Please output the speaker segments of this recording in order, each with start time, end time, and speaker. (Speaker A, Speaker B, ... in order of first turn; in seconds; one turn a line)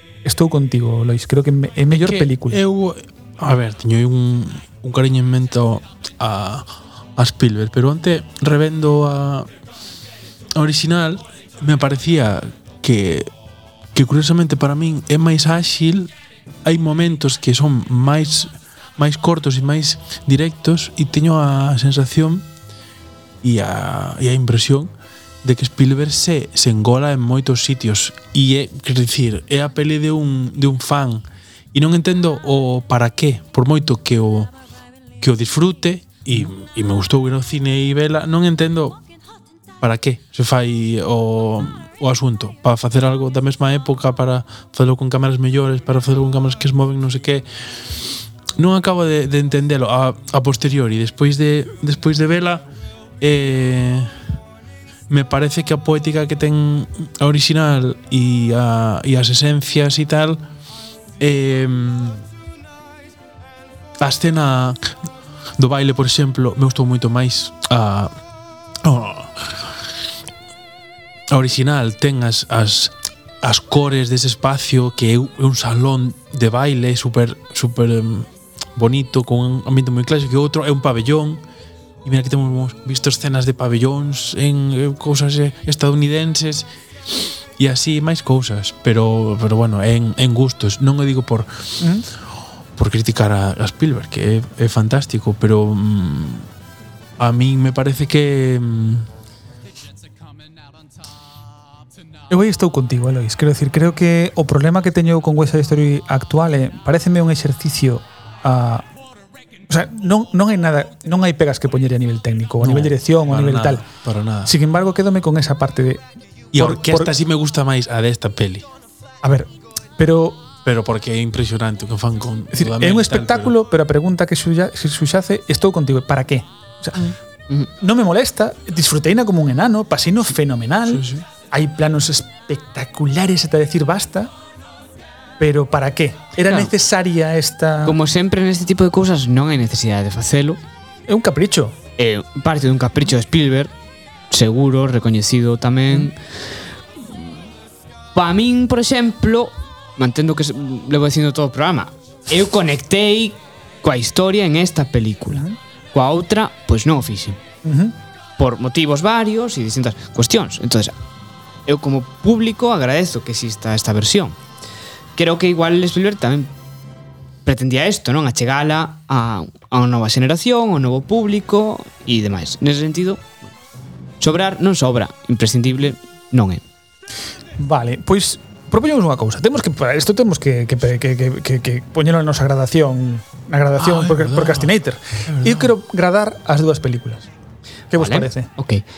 Speaker A: 0.2-2.6
Speaker B: 1.9-9.5
Speaker B: 10.6-13.3
Speaker B: 13.9-22.5
Speaker B: 23.4-24.9
Speaker B: 25.4-34.5
Speaker B: 35.2-39.0
Speaker B: 39.8-52.7
Speaker B: 53.2-54.1
Speaker B: 55.1-60.4
Speaker B: 61.2-62.3
Speaker B: 64.0-64.9
Speaker B: 65.6-68.1
Speaker B: 68.8-69.7
Speaker B: 71.3-81.4
Speaker B: 82.0-91.8
Speaker A: 91.8-92.0
Speaker B: 92.8-96.5
Speaker B: 97.2-99.1
Speaker A: 102.3-108.9
Speaker A: 109.7-113.8
Speaker B: 112.6-114.5
Speaker A: 114.5-117.1
Speaker B: 116.5-118.7
Speaker A: 119.2-120.5
Speaker B: 120.6-123.5
Speaker A: 122.5-127.1
Speaker C: 127.0-127.7
Speaker A: 127.8-134.3
Speaker B: 130.9-131.3
Speaker A: 135.4-138.0
Speaker C: 136.4-136.7
Speaker C: 137.8-140.6
Speaker A: 141.1-141.8
Speaker C: 142.0-143.7
Speaker C: 144.3-146.2
Speaker C: 147.0-147.4
Speaker C: 148.1-157.4
Speaker A: 157.6-157.9
Speaker C: 158.4-160.9
Speaker C: 161.7-164.4
Speaker C: 165.2-166.5
Speaker C: 167.4-173.2
Speaker C: 174.2-176.6
Speaker A: 177.6-187.3
Speaker B: 183.8-184.7
Speaker B: 185.3-185.7
Speaker A: 187.9-188.5
Speaker C: 187.9-188.8